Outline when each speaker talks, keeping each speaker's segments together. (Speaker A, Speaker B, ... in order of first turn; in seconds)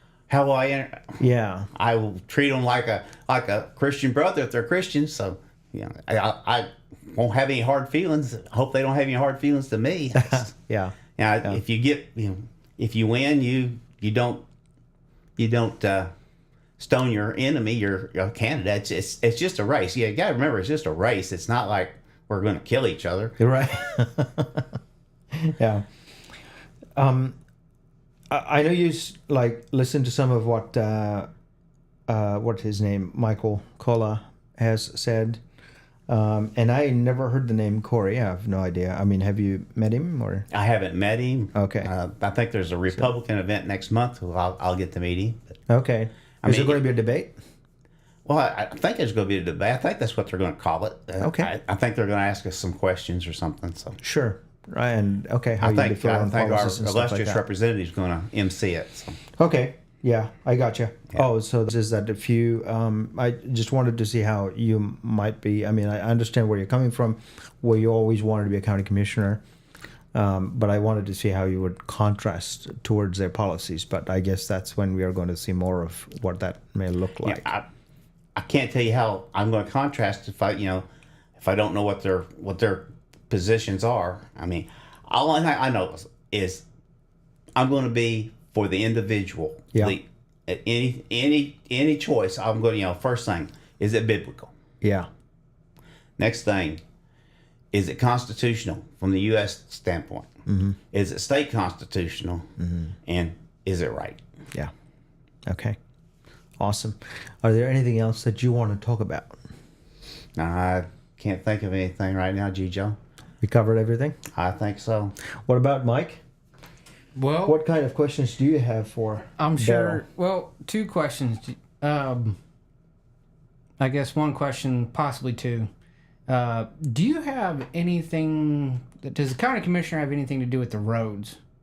Speaker A: 0.3-1.2, 1.7-10.5, 11.2-14.4, 15.4-16.1, 16.8-23.4, 40.5-45.5, 46.4-46.8, 48.2-54.0, 55.6-59.2, 77.2-77.7, 78.3-80.9, 81.4-86.7, 87.6-94.5, 96.2-96.8, 97.7-100.3, 100.9-102.5, 103.1-104.2, 110.4-113.0, 114.3-115.1
Speaker B: 1.2-1.7, 10.2-11.6, 23.4-24.7, 25.4-25.8, 27.0-27.4, 28.3-31.3, 32.1-35.4, 36.1-40.5, 41.5-41.9, 45.7-47.3, 51.2-51.5, 54.0-57.4, 59.4-69.4, 70.1-77.5, 94.8-95.1, 100.5-100.8, 102.6-102.9, 105.5-105.8, 106.6-109.4, 113.4-114.2, 115.5-116.2, 117.5-120.0
Speaker C: 117.2-117.6, 119.4-122.4, 123.8-125.7, 126.3-131.4